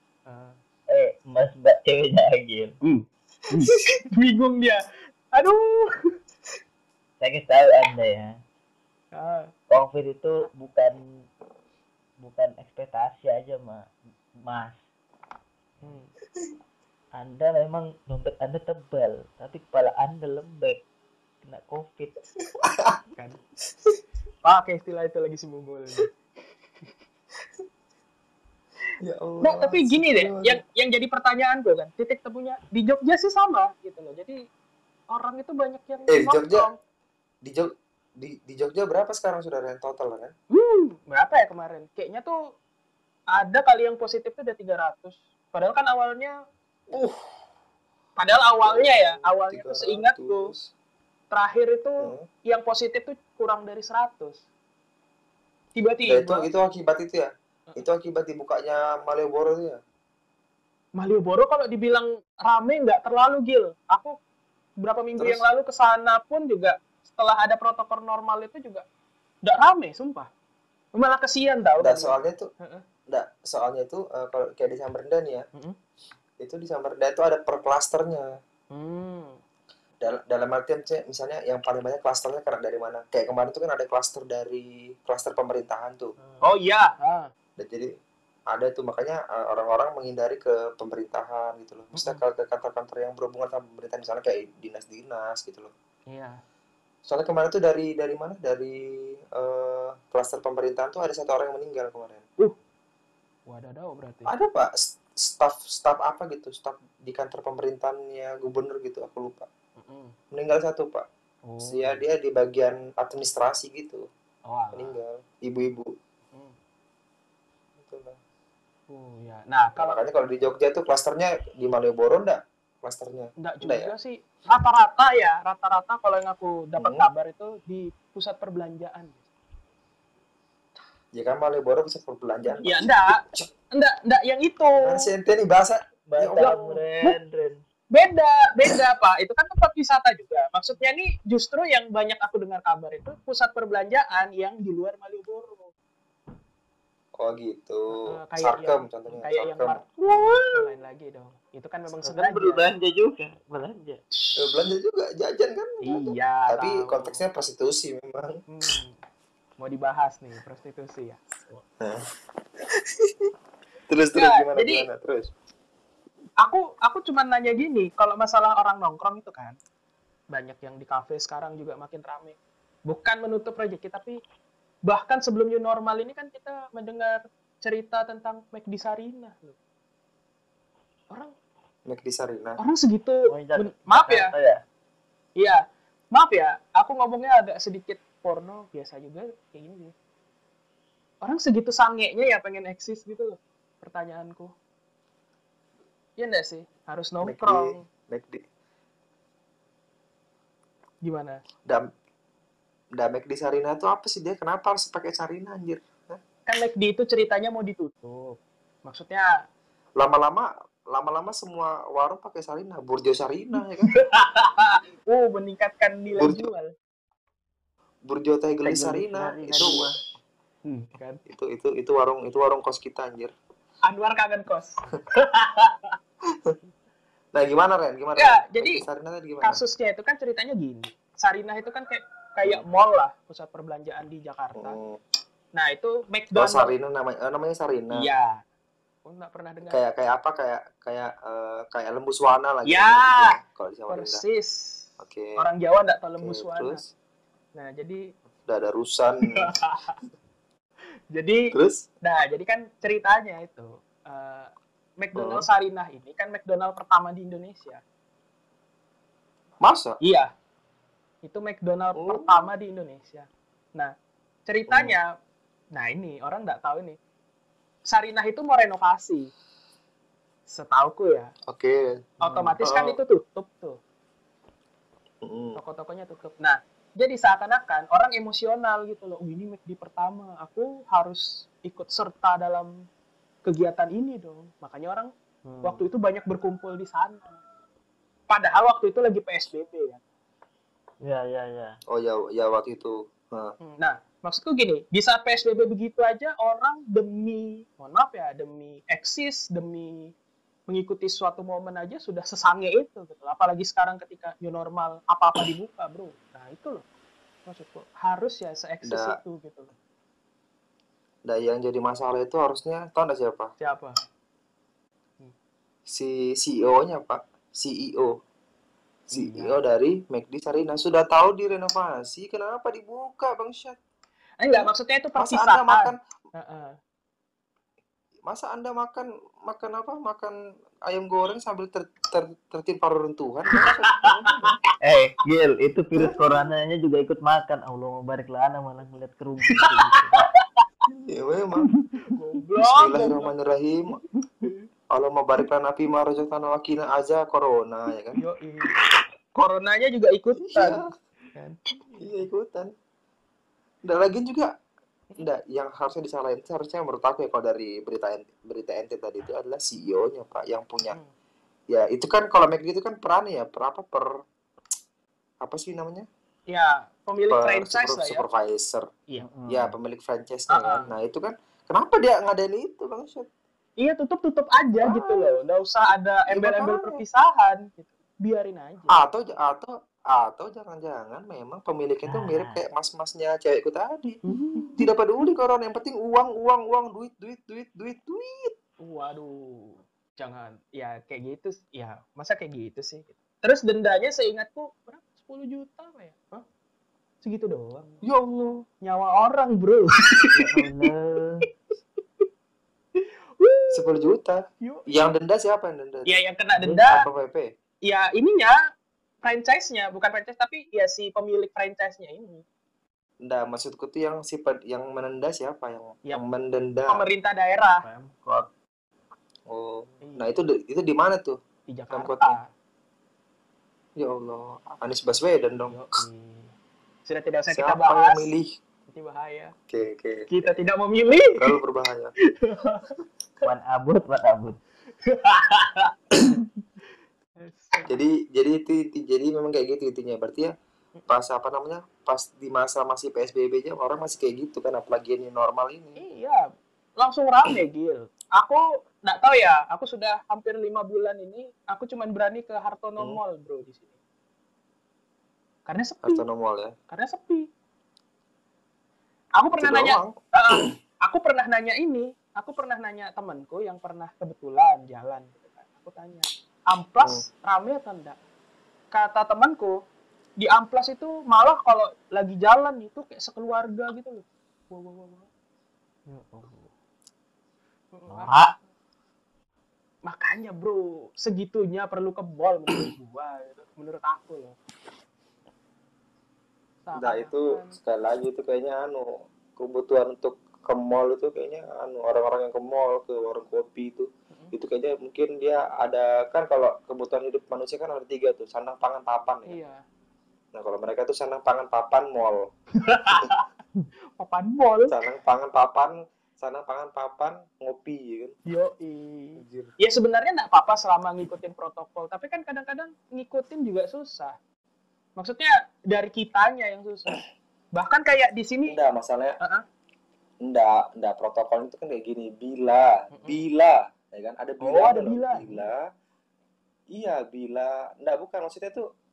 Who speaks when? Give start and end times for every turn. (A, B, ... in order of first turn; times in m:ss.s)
0:00.3-0:00.6 A
0:00.9-0:02.8 B
0:02.8-0:06.1 A
0:07.2-0:08.3 B
0:09.1-0:09.5 A
0:09.7-0:11.0 B
0:12.2-0:13.9 B
0:14.5-0:14.8 B
0:15.8-0:16.1 A
0:17.1-0:20.8 B
0:21.4-0:22.2 B
0:22.6-0:23.0 C
0:24.4-0:26.1 A
0:29.0-0:30.6 C
0:29.4-0:34.4 A
0:35.1-0:36.8 A
0:36.1-0:36.7 C
0:37.4-0:40.3 C
0:40.5-0:42.4 A
0:43.3-0:46.3 A
0:46.9-0:47.3 C
0:48.2-0:50.5 A
0:48.6-0:50.7 C
0:51.3-0:54.4 A
0:52.0-0:52.3 C
0:55.8-0:56.5 A
0:56.1-0:59.8 C
1:01.0-1:04.2 A
1:04.8-1:08.8 A
1:05.2-1:05.4 C
1:09.4-1:10.3 A
1:10.9-1:12.8 A
1:11.8-1:12.5 C
1:13.1-1:15.4 C
1:16.4-1:18.3 C
1:18.7-1:19.4 A
1:20.0-1:26.2 C
1:26.4-1:27.3 A
1:27.6-1:27.9 C
1:28.5-1:35.7 C
1:31.9-1:32.2 A
1:36.1-1:36.4 A
1:37.1-1:42.2 C
1:43.5-1:44.3 A
1:44.3-1:49.5 C
1:49.8-1:50.2 A
1:50.3-1:51.0 C
1:51.5-1:52.0 A
1:51.6-1:54.1 C
1:54.5-1:55.0 A
1:54.7-1:55.9 C
1:56.3-1:56.6 A
1:57.8-1:58.2 C
1:58.9-2:00.0 A
1:59.8-2:03.9 C
2:03.4-2:09.2 A
2:06.8-2:07.1 C
2:11.1-2:13.4 C
2:12.6-2:15.1 A
2:14.8-2:16.8 C
2:16.1-2:17.6 B
2:16.4-2:17.2 A
2:17.9-2:25.7 A
2:27.2-2:29.9 C
2:27.9-2:32.7 A
2:30.0-2:30.6 B
2:32.0-2:34.0 B
2:34.2-2:34.7 A
2:34.4-2:38.4 C
2:35.8-2:37.2 A
2:38.5-2:39.0 A
2:39.6-2:41.2 A
2:42.7-2:43.3 C
2:43.9-2:45.3 C
2:44.2-2:44.9 A
2:46.4-2:49.6 A
2:50.3-2:52.4 A
2:52.9-2:54.2 A
2:54.9-2:59.6 A
3:01.9-3:02.6 C
3:02.6-3:04.3 A
3:03.3-3:04.6 B
3:06.1-3:09.9 A
3:11.2-3:14.5 A
3:16.2-3:17.8 A
3:17.2-3:18.4 C
3:21.0-3:21.4 A
3:23.0-3:26.2 C
3:26.5-3:29.3 A
3:30.0-3:33.9 C
3:33.8-3:36.7 A
3:36.2-3:36.5 C
3:38.1-3:39.9 C
3:38.6-3:40.0 B
3:40.7-3:41.2 A
3:41.3-3:43.3 C
3:43.9-3:46.0 A
3:47.3-3:49.6 C
3:48.2-3:48.8 A
3:49.4-3:54.8 A
3:54.6-3:55.0 C
3:55.5-3:56.7 A
3:56.3-3:58.1 C
3:57.9-3:58.4 A
3:59.0-3:59.8 A
3:59.7-4:04.2 C
4:02.7-4:03.4 A
4:03.9-4:06.8 A
4:05.0-4:05.4 C
4:06.2-4:06.9 C
4:07.6-4:08.0 A
4:08.5-4:09.5 C
4:09.3-4:10.0 A
4:11.1-4:17.8 A
4:11.5-4:11.9 C
4:15.2-4:15.5 C
4:19.6-4:20.0 C
4:20.0-4:20.3 A
4:21.2-4:23.9 A
4:22.0-4:22.5 C
4:24.5-4:25.1 A
4:24.7-4:25.0 C
4:25.7-4:27.0 A
4:27.9-4:29.3 A
4:30.5-4:31.3 A
4:31.5-4:31.9 C
4:32.2-4:33.8 A
4:32.6-4:33.0 C
4:35.2-4:35.6 C
4:35.6-4:42.7 A
4:43.4-4:45.1 A
4:45.5-4:45.9 B
4:45.6-4:47.4 A
4:48.3-4:50.0 A
4:51.0-4:51.8 B
4:51.9-4:53.6 C
4:53.6-5:00.1 A
5:00.7-5:06.8 A
5:07.5-5:09.7 A
5:08.8-5:09.2 C
5:11.3-5:13.5 C
5:13.6-5:14.0 A
5:15.9-5:18.2 C
5:19.1-5:23.8 C
5:19.2-5:19.5 A
5:24.4-5:26.8 A
5:24.5-5:26.0 C
5:28.3-5:30.3 C
5:30.9-5:34.6 C
5:33.8-5:34.5 A
5:34.8-5:40.3 B
5:39.6-5:40.2 A
5:41.0-5:41.7 C
5:42.1-5:43.3 A
5:42.6-5:44.0 C
5:44.4-5:44.7 A
5:44.9-5:48.2 C
5:48.2-5:48.8 A
5:49.4-5:50.8 A
5:50.4-5:50.9 C
5:51.4-5:52.2 A
5:52.0-5:52.7 C
5:53.9-5:54.5 C
5:55.2-6:01.0 C
6:01.7-6:04.1 C
6:05.4-6:06.1 C
6:06.5-6:08.2 A
6:07.3-6:08.9 C
6:09.2-6:09.8 B
6:09.5-6:13.3 C
6:10.5-6:11.0 A
6:13.8-6:19.0 A
6:14.8-6:15.4 C
6:16.3-6:17.0 C
6:18.9-6:24.2 C
6:22.0-6:22.6 B
6:24.3-6:24.8 A
6:24.4-6:24.7 B
6:24.8-6:28.6 C
6:28.8-6:36.4 A
6:37.2-6:38.0 A
6:38.0-6:38.6 C
6:38.8-6:40.9 A
6:40.3-6:41.5 B
6:43.0-6:44.0 A
6:43.7-6:47.5 C
6:44.6-6:44.9 A
6:46.1-6:47.1 A
6:46.6-6:46.9 B
6:47.8-6:48.5 A
6:49.2-6:52.4 A
6:53.2-6:57.0 C
6:56.9-6:57.9 A
6:57.8-6:58.5 B
6:59.5-7:01.4 C
7:00.0-7:00.3 A
7:01.7-7:02.4 A
7:01.9-7:02.4 C
7:04.0-7:05.8 C
7:05.7-7:06.5 A
7:07.1-7:08.3 A
7:07.5-7:08.5 C
7:08.9-7:09.6 A
7:09.7-7:10.7 C
7:10.3-7:11.6 A
7:11.2-7:12.1 C
7:12.4-7:13.0 A
7:13.4-7:14.6 B
7:15.0-7:16.4 A
7:17.4-7:18.0 A
7:17.9-7:20.5 C
7:21.1-7:26.0 C
7:26.0-7:26.5 A
7:27.0-7:34.0 A
7:35.7-7:36.2 A
7:36.0-7:36.7 C
7:36.9-7:37.5 A
7:39.4-7:48.2 A
7:39.6-7:40.6 C
7:48.9-7:49.8 A
7:50.4-7:55.3 A
7:56.1-7:56.7 B
7:57.9-7:58.6 A
7:58.1-7:58.5 B
8:00.1-8:04.6 A
8:06.9-8:07.8 A
8:07.0-8:19.6 C
8:19.5-8:19.8 A
8:20.5-8:22.5 C
8:22.8-8:23.4 A
8:24.2-8:25.0 A
8:24.9-8:28.3 C
8:28.5-8:34.4 A
8:29.4-8:29.7 C
8:35.2-8:37.2 A
8:37.7-8:38.8 A
8:38.7-8:39.4 C
8:40.4-8:45.9 C
8:43.1-8:43.4 A
8:44.6-8:45.7 A
8:46.9-8:48.8 C